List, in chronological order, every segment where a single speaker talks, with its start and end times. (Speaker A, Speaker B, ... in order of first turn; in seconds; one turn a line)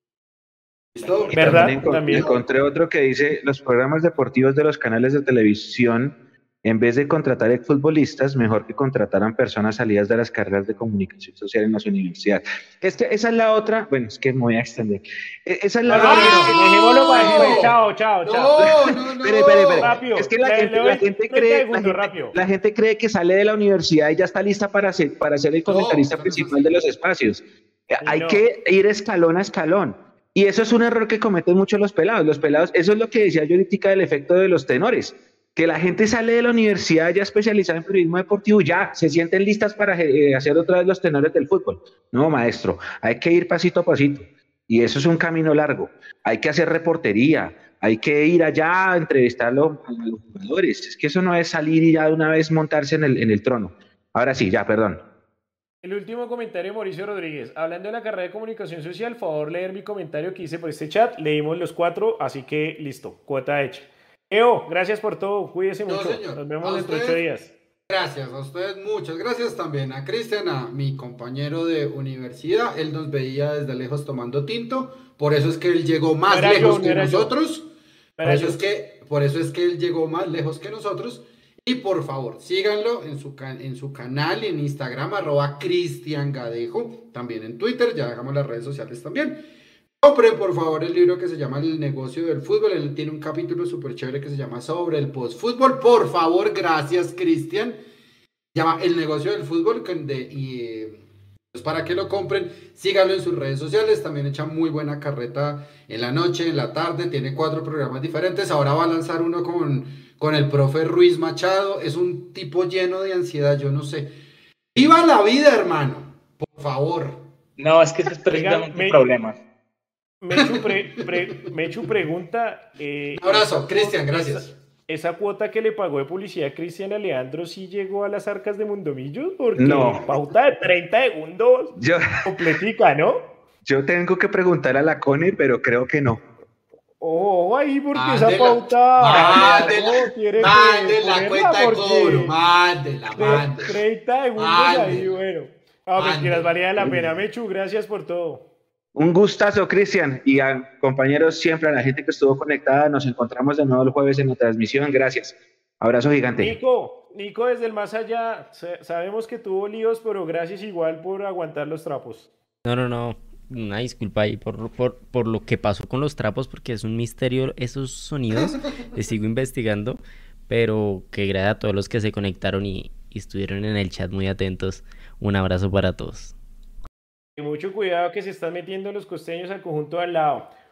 Speaker A: 0.9-2.4
Speaker B: 1.0-1.6
Speaker C: 1.3-17.7
Speaker D: 1.3-2.3
Speaker A: 15.9-16.6
Speaker D: 15.9-18.6
Speaker A: 17.1-20.0
Speaker C: 18.6-55.0
Speaker D: 19.8-22.4
Speaker A: 25.7-26.7
Speaker D: 28.0-28.4
Speaker D: 55.8-67.5
Speaker A: 65.9-67.2
Speaker A: 67.9-77.7
Speaker D: 76.3-77.3
Speaker D: 78.2-78.6
Speaker A: 78.2-89.4
Speaker A: 90.0-97.8
Speaker A: 98.5-114.1
Speaker A: 114.8-117.2
Speaker B: 117.6-119.4
Speaker D: 118.3-119.0
Speaker D: 120.2-133.3
Speaker A: 120.4-121.9
Speaker A: 123.2-124.6
Speaker C: 129.6-130.1
Speaker C: 131.8-132.3
Speaker C: 133.7-136.2
Speaker D: 137.0-142.3
Speaker A: 137.9-143.8
Speaker C: 139.1-139.6
Speaker D: 143.2-148.4
Speaker A: 144.4-145.2
Speaker A: 146.0-147.1
Speaker C: 148.9-156.6
Speaker D: 156.4-162.3
Speaker E: 162.7-176.3
Speaker D: 177.4-180.5